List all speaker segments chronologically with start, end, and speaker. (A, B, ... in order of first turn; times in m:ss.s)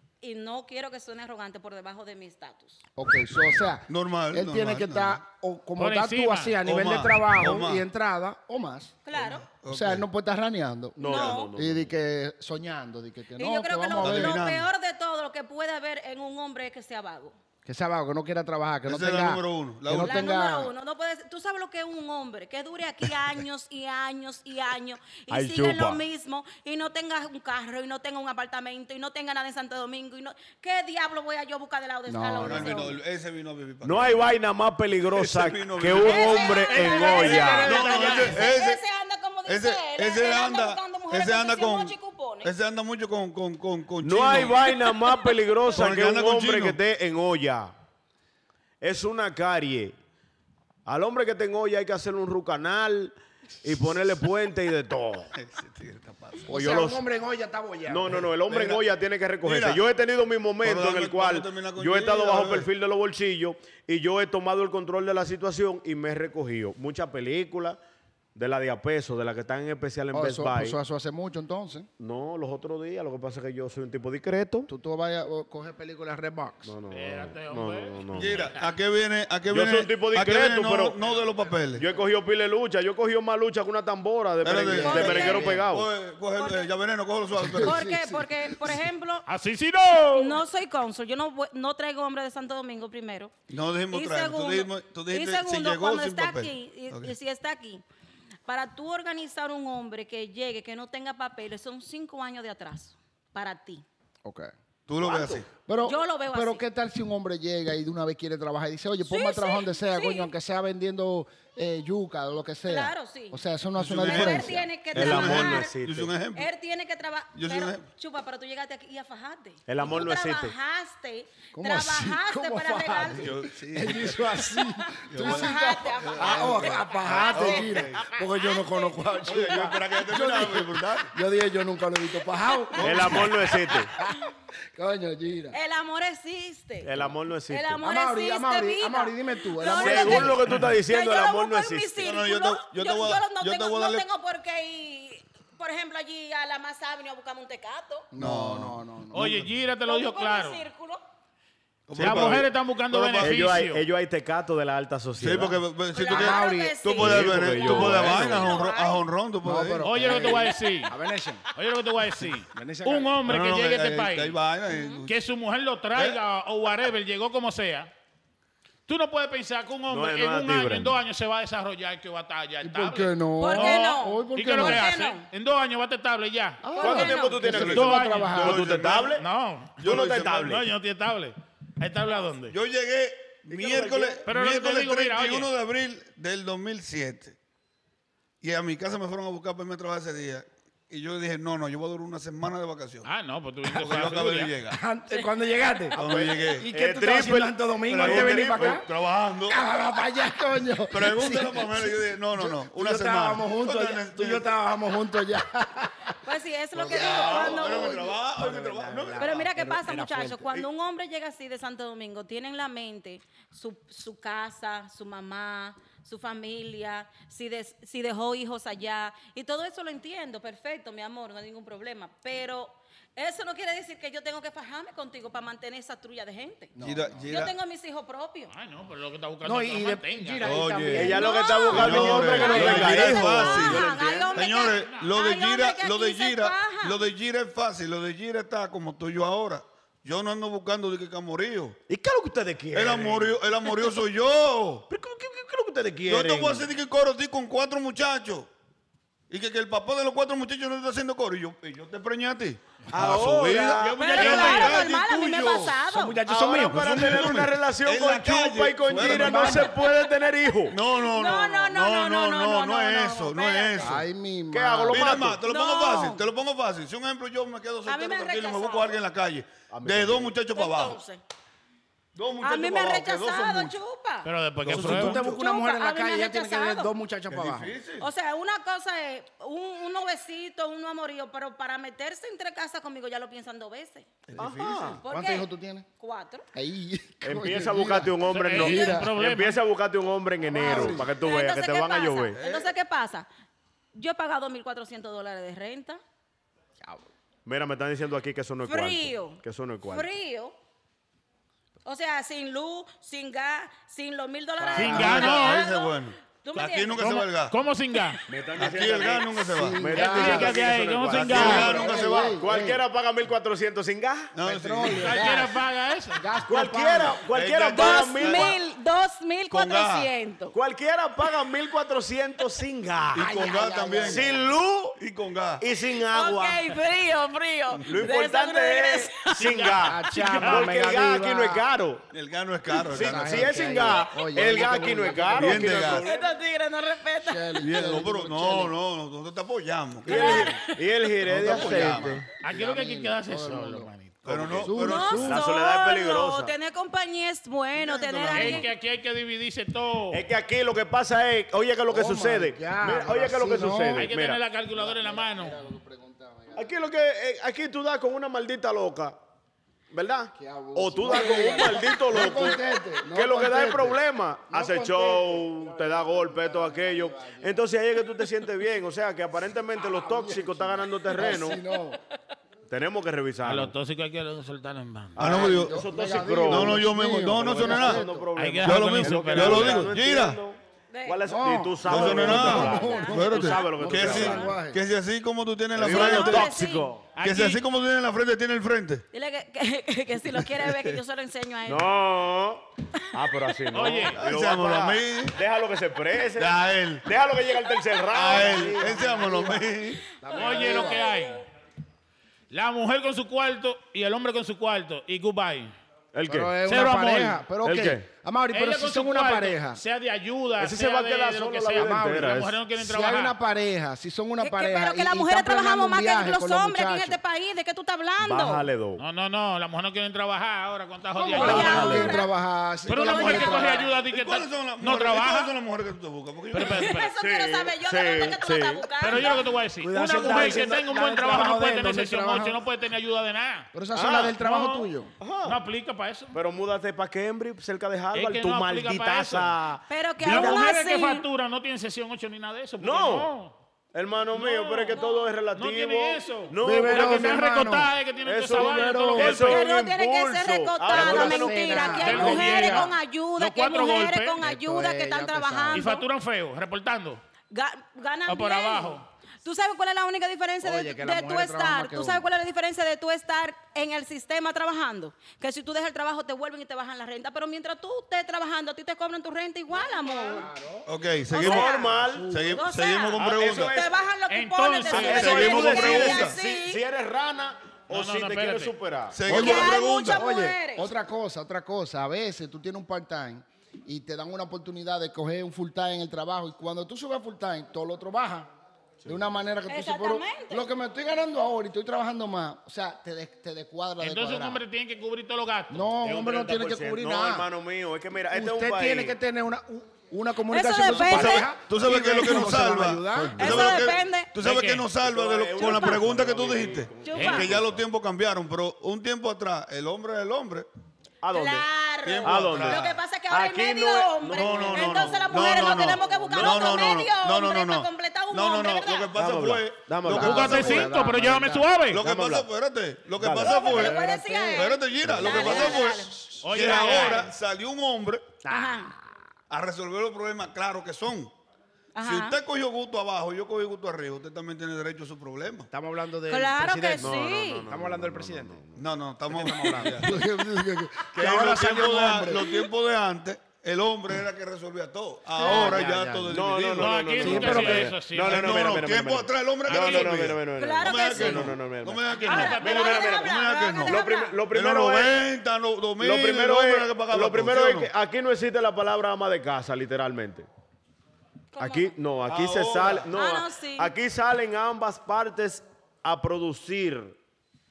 0:00.2-0:02.8 A
0:03.0-0:08.9 B
0:03.9-0:05.2 C
0:05.8-0:06.6 D
0:06.6-0:07.8 C
0:09.0-0:09.5 A
0:09.1-0:10.0 C
0:09.7-0:14.4 B
0:11.0-0:11.9 E
0:11.0-0:11.5 A
0:13.4-0:17.4 A
0:14.0-0:14.7 C
0:17.6-0:20.7 B
0:18.9-0:20.3 C
0:19.9-0:33.0 A
0:25.3-0:26.0 E
0:32.1-0:32.9 B
0:32.4-0:34.3 C
0:33.8-0:37.8 E
0:35.1-0:36.6 C
0:36.0-0:42.5 A
0:36.4-0:38.4 D
0:37.5-0:38.8 C
0:39.5-0:44.7 C
0:44.0-0:47.7 E
0:44.5-0:45.3 A
0:45.7-0:46.8 C
0:48.8-0:50.0 E
0:50.9-0:55.3 E
0:55.3-0:56.5 C
0:56.5-0:58.8 B
0:56.5-0:57.0 E
0:57.9-1:07.8 E
0:59.4-0:59.8 C
1:00.6-1:02.7 C
1:08.4-1:10.8 E
1:10.1-1:11.9 B
1:12.0-1:14.7 E
1:14.7-1:16.7 B
1:16.6-1:18.4 E
1:16.9-1:18.6 D
1:18.1-1:21.8 C
1:19.5-1:21.0 E
1:21.7-1:25.9 E
1:24.4-1:27.8 C
1:24.6-1:25.7 B
1:24.8-1:25.5 A
1:26.4-1:26.7 A
1:27.4-1:28.8 B
1:27.6-1:29.2 A
1:29.3-1:30.4 D
1:30.1-1:33.3 A
1:33.5-1:37.1 C
1:33.9-1:37.8 A
1:38.5-1:43.8 A
1:44.2-1:44.5 B
1:44.9-1:45.5 C
1:45.0-1:45.4 E
1:45.6-1:54.7 B
1:45.8-1:46.6 A
1:49.0-1:50.3 A
1:52.6-1:55.8 A
1:53.8-1:56.5 C
1:54.9-1:56.1 E
1:56.3-2:03.4 A
1:57.3-1:57.8 C
1:59.7-2:00.5 E
2:01.5-2:14.2 B
2:03.1-2:04.5 C
2:04.8-2:09.7 A
2:05.1-2:08.2 C
2:09.2-2:11.1 C
2:12.5-2:14.1 A
2:12.8-2:13.3 C
2:12.8-2:13.9 E
2:14.7-2:15.6 B
2:15.5-2:16.9 A
2:16.8-2:17.8 E
2:17.5-2:28.1 A
2:17.8-2:20.4 B
2:19.8-2:22.0 E
2:20.5-2:20.7 D
2:22.0-2:24.0 C
2:28.1-2:29.4 B
2:28.2-2:29.4 C
2:29.1-2:30.6 D
2:29.8-2:31.0 A
2:31.9-2:33.6 C
2:31.9-2:33.8 D
2:32.0-2:32.3 E
2:33.2-2:35.6 E
2:35.2-2:40.2 C
2:35.9-2:39.0 A
2:36.1-2:36.8 B
2:36.8-2:38.7 E
2:39.4-2:41.4 B
2:39.8-2:40.9 D
2:40.2-2:40.9 A
2:41.5-2:44.4 D
2:42.4-2:43.2 B
2:43.2-2:45.1 C
2:44.7-2:45.0 A
2:45.1-2:47.9 D
2:45.9-2:46.2 C
2:48.9-2:56.6 D
2:49.9-2:51.0 E
2:52.6-2:54.9 B
2:53.4-2:55.3 A
2:56.6-2:58.6 B
2:56.7-2:57.5 A
2:56.8-2:59.2 E
2:57.5-2:58.5 D
2:57.5-2:59.2 C
2:59.1-3:02.6 D
2:59.8-3:00.6 C
2:59.8-3:00.6 E
3:02.5-3:07.4 C
3:03.5-3:04.3 E
3:04.3-3:05.5 D
3:08.4-3:13.1 C
3:13.0-3:14.5 D
3:13.8-3:14.8 C
3:14.7-3:18.9 B
3:15.9-3:16.7 C
3:16.0-3:18.8 E
3:17.9-3:19.6 C
3:19.5-3:26.2 B
3:20.9-3:24.5 C
3:26.2-3:28.1 A
3:26.8-3:30.6 B
3:26.8-3:29.5 C
3:29.2-3:46.7 A
3:46.8-3:47.3 B
3:46.8-3:47.5 C
3:47.3-3:48.5 A
3:48.5-3:50.5 D
3:49.4-3:52.8 B
3:50.4-4:01.8 C
3:50.9-3:54.4 E
3:50.9-3:57.0 A
3:54.6-3:55.1 D
4:01.9-4:03.4 E
4:02.7-4:04.9 C
4:04.9-4:06.7 E
4:06.1-4:08.5 C
4:09.3-4:15.8 C
4:12.9-4:14.4 E
4:13.7-4:14.8 D
4:14.0-4:16.2 A
4:15.9-4:17.3 B
4:16.3-4:20.8 E
4:16.7-4:19.7 C
4:18.9-4:19.7 B
4:19.5-4:24.0 A
4:20.7-4:24.0 C
4:23.8-4:25.3 B
4:24.5-4:25.4 E
4:24.9-4:31.0 C
4:25.4-4:26.2 A
4:27.9-4:29.0 A
4:29.7-4:30.4 E
4:30.5-4:31.2 A
4:32.1-4:33.8 C
4:32.4-4:34.3 A
4:34.2-4:35.2 D
4:34.6-4:35.4 C
4:34.6-4:37.7 B
4:35.2-4:36.9 A
4:37.3-4:38.1 C
4:38.0-4:44.1 A
4:44.3-4:45.0 C
4:44.4-4:45.0 E
4:45.0-4:46.5 A
4:45.1-4:45.9 B
4:46.5-4:49.1 B
4:47.2-4:52.4 E
4:48.3-4:49.6 D
4:50.5-4:51.1 B
4:50.6-4:53.3 A
4:52.4-4:52.7 C
4:53.9-4:56.0 A
4:57.5-5:00.1 E
4:58.6-5:00.6 A
5:01.8-5:07.1 A
5:04.6-5:05.2 B
5:04.8-5:05.6 D
5:04.9-5:07.6 C
5:07.0-5:08.2 D
5:08.3-5:14.4 E
5:08.6-5:10.0 C
5:09.5-5:10.6 B
5:09.9-5:11.8 D
5:11.1-5:12.4 C
5:11.3-5:12.8 B
5:11.6-5:11.9 A
5:14.3-5:15.3 C
5:14.4-5:15.6 B
5:15.0-5:16.4 D
5:16.1-5:17.2 B
5:16.5-5:18.6 E
5:17.2-5:18.6 C
5:17.7-5:20.6 A
5:19.5-5:20.1 C
5:20.5-5:23.4 E
5:23.1-5:24.4 C
5:23.1-5:24.5 B
5:24.0-5:25.0 E
5:25.0-5:25.6 C
5:25.6-5:26.8 E
5:26.0-5:29.9 A
5:27.8-5:32.1 E
5:29.5-5:30.7 D
5:29.8-5:31.7 B
5:32.1-5:33.7 C
5:32.8-5:36.3 E
5:32.9-5:35.9 B
5:35.3-5:36.1 C
5:35.7-5:37.8 A
5:37.2-5:38.7 B
5:37.6-5:40.6 C
5:40.0-5:42.3 E
5:40.0-5:41.1 A
5:41.2-5:42.2 C
5:41.3-5:43.9 B
5:42.4-5:44.4 D
5:44.2-5:45.4 C
5:44.3-5:46.5 E
5:44.4-5:45.4 B
5:44.8-5:48.7 A
5:47.8-5:48.7 C
5:48.3-5:50.2 D
5:50.1-5:54.4 E
5:51.9-5:54.1 B
5:53.9-5:55.6 D
5:54.8-5:56.8 B
5:56.6-5:59.2 E
5:59.9-6:11.6 E
6:00.4-6:07.6 B
6:01.6-6:01.8 A
6:09.8-6:12.0 B
6:12.7-6:13.7 E
6:13.4-6:15.2 D
6:15.2-6:15.9 C
6:15.2-6:24.6 E
6:15.2-6:18.3 B
6:16.5-6:18.1 C
6:18.4-6:19.9 D
6:18.6-6:20.4 C
6:20.9-6:21.2 A
6:21.3-6:24.8 B
6:21.8-6:26.6 C
6:22.0-6:24.5 A
6:25.7-6:27.2 E
6:25.8-6:26.9 A
6:27.1-6:27.6 D
6:27.2-6:29.0 C
6:29.1-6:31.9 A
6:30.6-6:31.0 C
6:31.6-6:39.1 E
6:33.7-6:34.2 D
6:34.0-6:35.4 C
6:36.4-6:37.1 C
6:38.1-6:40.1 C
6:38.3-6:41.1 B
6:40.3-6:41.4 A
6:40.3-6:41.4 D
6:42.5-6:45.7 D
6:46.1-6:46.6 E
6:46.3-6:49.8 B
6:46.6-6:47.4 D
6:47.6-6:48.1 E
6:48.5-6:53.4 D
6:50.6-6:52.6 E
6:51.8-6:57.2 B
6:54.4-6:58.6 A
6:58.2-6:59.0 E
6:59.0-7:02.1 D
7:01.2-7:03.9 B
7:01.3-7:02.3 A
7:01.4-7:02.2 E
7:02.9-7:06.9 C
7:02.9-7:05.5 D
7:06.5-7:07.1 D
7:06.6-7:09.5 A
7:07.2-7:09.2 E
7:09.0-7:13.7 D
7:09.8-7:12.6 B
7:09.9-7:10.8 E
7:13.7-7:15.1 B
7:13.9-7:14.4 E
7:14.4-7:14.9 D
7:15.2-7:15.6 E
7:15.4-7:16.4 D
7:16.3-7:20.6 E
7:18.1-7:19.5 D
7:19.9-7:21.2 A
7:20.2-7:23.6 D
7:22.8-7:23.3 E
7:23.9-7:27.4 E
7:24.3-7:25.0 D
7:24.9-7:25.3 A
7:25.5-7:29.6 D
7:26.6-7:27.9 B
7:28.2-7:32.4 E
7:28.5-7:29.5 B
7:29.4-7:36.0 A
7:30.9-7:32.9 B
7:31.9-7:34.4 D
7:34.4-7:35.9 B
7:35.7-7:37.2 D
7:37.5-7:50.5 A
7:38.3-7:39.0 D
7:40.6-7:42.2 B
7:49.7-7:50.9 B
7:50.9-7:53.7 C
7:51.3-7:56.8 A
7:51.3-7:52.4 E
7:51.9-7:52.6 B
7:53.2-7:53.9 E
7:54.3-7:55.8 D
7:54.9-7:56.4 C
7:54.9-7:59.8 E
7:57.9-7:58.7 D
7:59.1-8:00.2 C
7:59.3-8:00.9 A
8:00.1-8:08.5 B
8:09.0-8:14.6 B
8:09.0-8:09.3 E
8:09.7-8:10.6 A
8:14.0-8:15.9 D
8:15.7-8:17.5 B
8:16.0-8:19.2 E
8:18.3-8:23.6 B
8:20.5-8:21.5 A
8:20.9-8:30.7 C
8:23.1-8:23.8 E
8:23.4-8:24.3 A
8:24.4-8:24.9 D
8:25.0-8:27.8 E
8:25.6-8:26.0 A
8:27.0-8:27.5 A
8:27.1-8:27.5 D
8:31.2-8:31.6 E
8:31.3-8:39.2 A
8:32.0-8:33.0 C
8:32.2-8:36.9 E
8:34.3-8:40.9 C
8:39.1-8:40.9 E
8:40.0-8:41.7 B
8:40.1-8:42.0 D
8:41.9-8:44.0 C
8:42.0-8:42.5 E
8:43.2-8:43.9 E
8:43.4-8:46.2 A
8:43.7-8:45.3 B
8:44.5-8:48.4 C
8:45.0-8:45.8 E
8:46.4-8:47.3 D
8:48.4-8:49.1 B
8:48.5-8:48.9 A
8:49.5-8:51.3 C
8:51.9-8:52.4 A
8:52.0-8:55.7 C
8:55.7-8:58.6 B
8:56.3-8:57.6 A
8:57.0-9:00.0 E
8:58.8-9:00.2 C
8:59.3-9:02.5 B
9:01.1-9:17.9 C
9:05.4-9:05.8 A
9:05.4-9:06.4 B
9:06.3-9:15.2 E
9:06.8-9:08.8 D
9:07.2-9:07.9 B
9:09.7-9:11.6 A
9:12.1-9:13.2 D
9:12.2-9:14.4 A
9:16.0-9:20.5 E
9:21.5-9:22.0 A
9:21.6-9:27.2 E
9:22.3-9:23.1 C
9:23.1-9:23.9 A